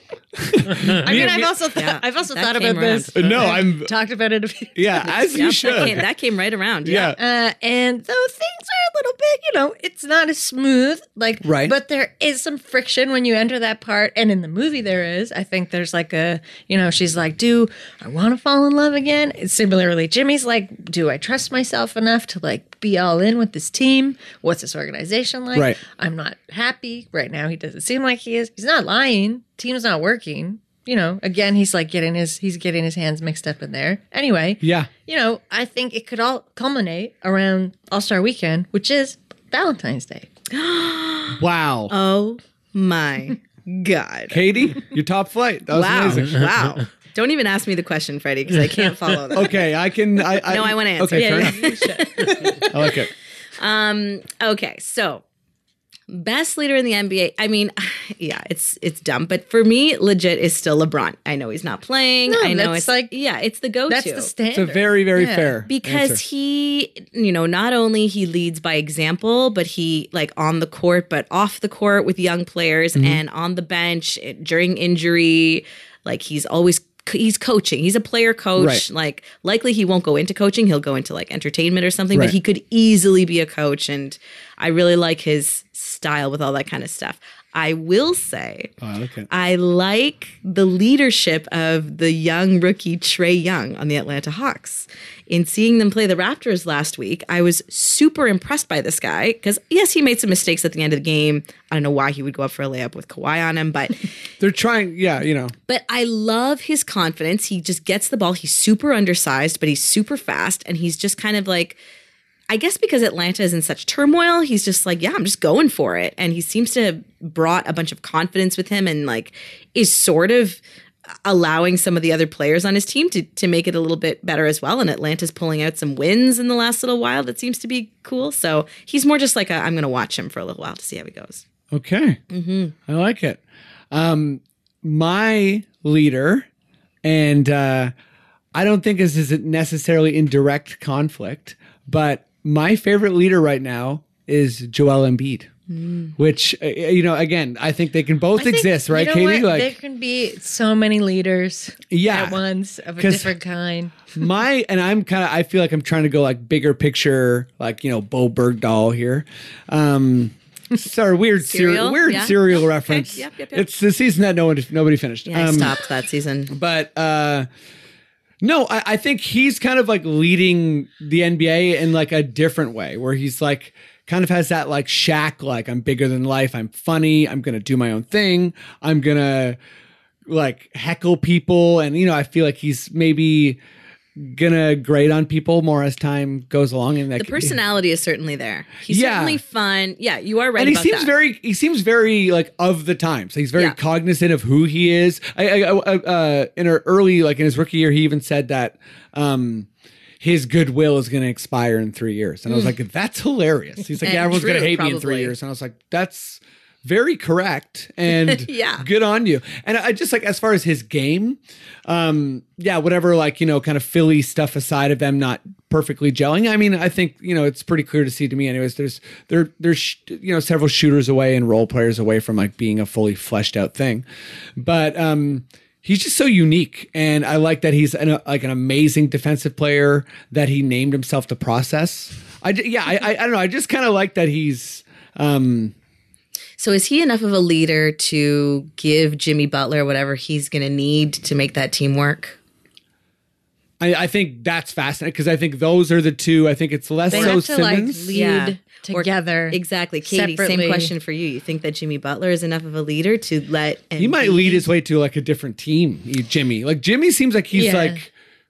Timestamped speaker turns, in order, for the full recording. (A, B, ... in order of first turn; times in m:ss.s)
0:00.3-0:01.5 A
0:01.0-0:05.9 B
0:01.7-0:03.6 C
0:03.1-0:03.9 A
0:04.7-0:06.0 A
0:05.3-0:07.1 C
0:06.8-0:07.2 A
0:07.1-0:40.3 B
0:11.4-0:11.7 A
0:25.5-0:25.8 A
0:34.6-0:34.9 A
0:40.5-0:44.4 C
0:41.3-0:41.9 A
0:44.3-0:46.8 A
0:45.7-0:49.6 C
0:49.3-0:51.6 A
0:50.3-0:52.6 C
0:51.1-0:52.9 B
0:52.7-0:53.1 A
0:53.6-0:55.2 C
0:56.1-1:04.3 C
1:02.3-1:03.1 B
1:03.9-1:05.6 B
1:04.5-1:06.2 A
1:05.7-1:28.7 C
1:12.9-1:13.2 A
1:18.6-1:18.8 A
1:28.8-1:29.3 A
1:29.3-1:44.1 C
1:44.4-1:45.6 A
1:45.7-1:51.8 C
1:52.5-2:00.6 C
2:01.2-2:11.4 C
2:11.7-2:12.2 A
2:12.3-2:12.7 C
2:12.9-2:13.4 A
2:13.9-2:16.5 A
2:17.0-2:17.9 A
2:18.5-2:25.5 A
2:25.7-2:26.1 C
2:26.2-2:29.7 A
2:28.4-2:34.1 B
2:31.9-2:32.4 A
2:33.0-2:33.3 A
2:34.1-2:45.7 A
2:41.4-2:43.7 C
2:45.3-2:46.5 C
2:46.5-2:47.5 A
2:48.4-2:59.6 A
3:00.2-3:03.6 A
3:04.2-3:07.6 A
3:07.2-3:11.1 C
3:08.9-3:09.4 A
3:10.6-3:19.7 A
3:20.2-3:44.0 A
3:24.0-3:25.3 C
3:28.1-3:28.9 C
3:44.6-3:55.7 A
3:56.6-4:02.4 C
4:03.8-4:08.2 A
4:07.1-4:07.4 C
4:07.1-4:10.9 B
4:08.0-4:14.7 C
4:14.0-4:18.1 A
4:17.5-4:18.0 B